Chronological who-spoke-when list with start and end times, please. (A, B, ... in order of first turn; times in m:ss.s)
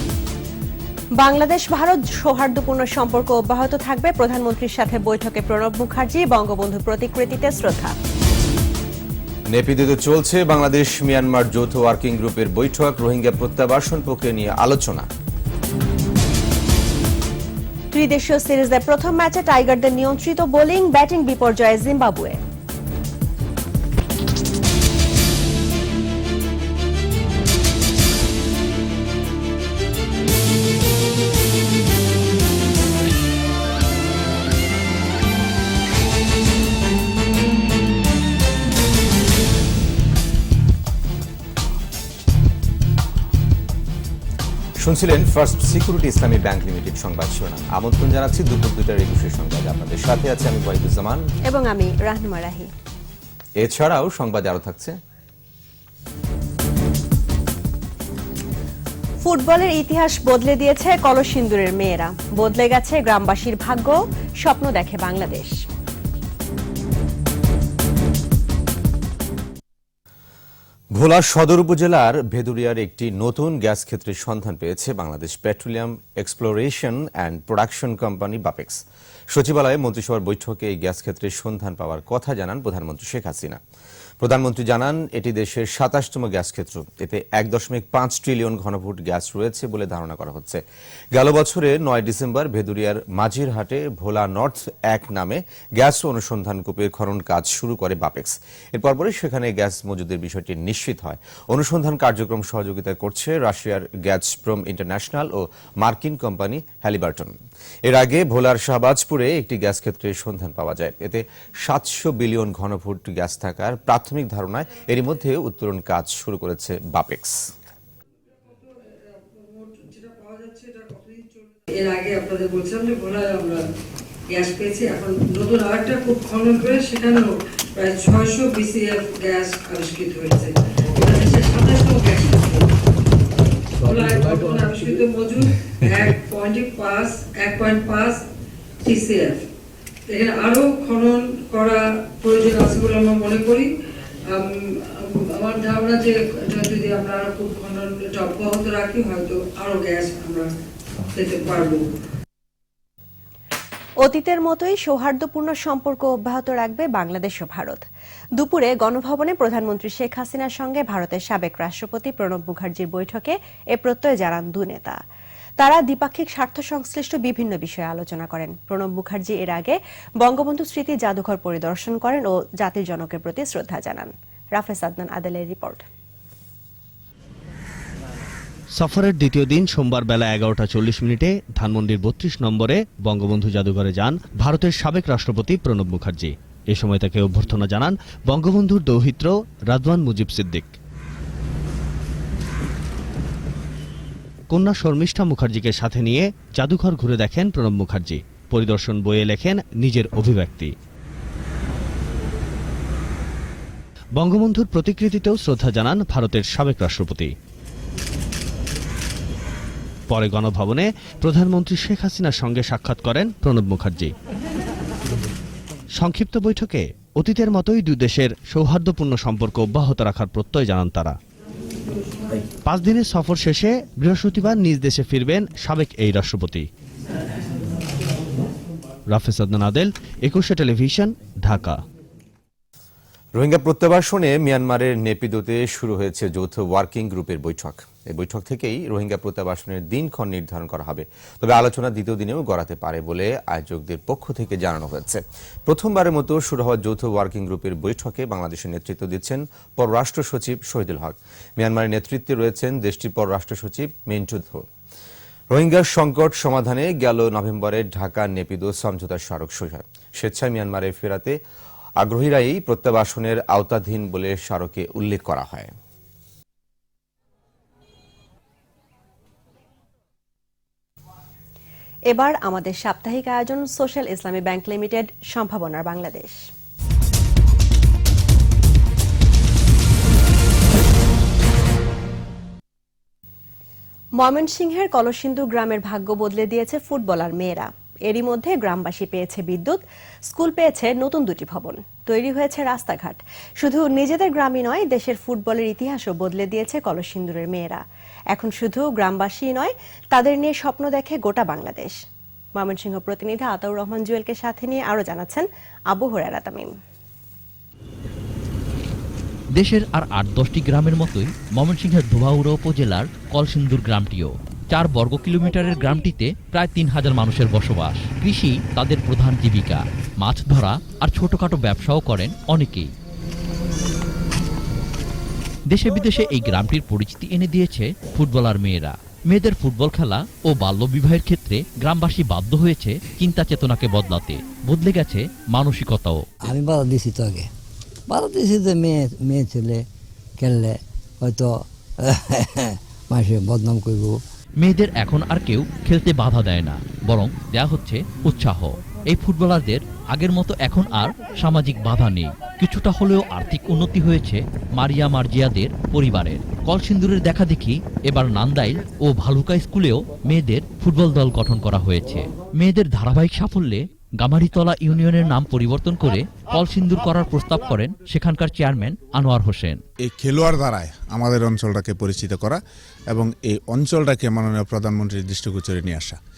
0:01.2-0:07.9 A
0:09.5-0:15.1 B
0:17.9-0:22.4 A
0:44.8-0:51.3 B
0:51.5-0:52.7 A
0:53.6-0:55.0 B
0:59.2-1:05.5 A
1:10.9-1:23.6 B
1:24.2-1:57.4 B
1:58.4-1:58.7 C
1:59.3-2:03.6 C
2:04.3-2:12.7 C
2:13.8-2:18.2 C
2:18.8-2:19.4 C
2:20.1-2:23.7 C
2:24.3-2:30.5 C
2:31.1-2:31.8 C
2:34.0-2:37.8 A
2:38.4-2:45.0 A
2:45.6-2:55.8 A
2:58.7-3:10.7 D
3:14.5-3:20.7 D
3:24.2-3:27.3 D
3:30.1-3:34.1 D
3:35.9-3:41.2 D
3:42.6-3:46.7 D
3:49.1-3:51.8 D
3:53.3-4:14.6 B
4:15.5-4:21.4 B
4:22.0-4:25.7 B
4:32.1-4:36.4 A
4:44.2-4:57.8 A
4:58.3-5:01.9 A
5:02.6-5:06.7 A
5:09.6-5:22.9 E
5:25.7-5:36.2 E
5:36.4-5:37.5 F
5:38.1-5:39.8 F
5:40.4-5:41.5 F
5:42.7-5:44.2 F
5:44.6-6:09.8 E
6:10.0-6:16.2 G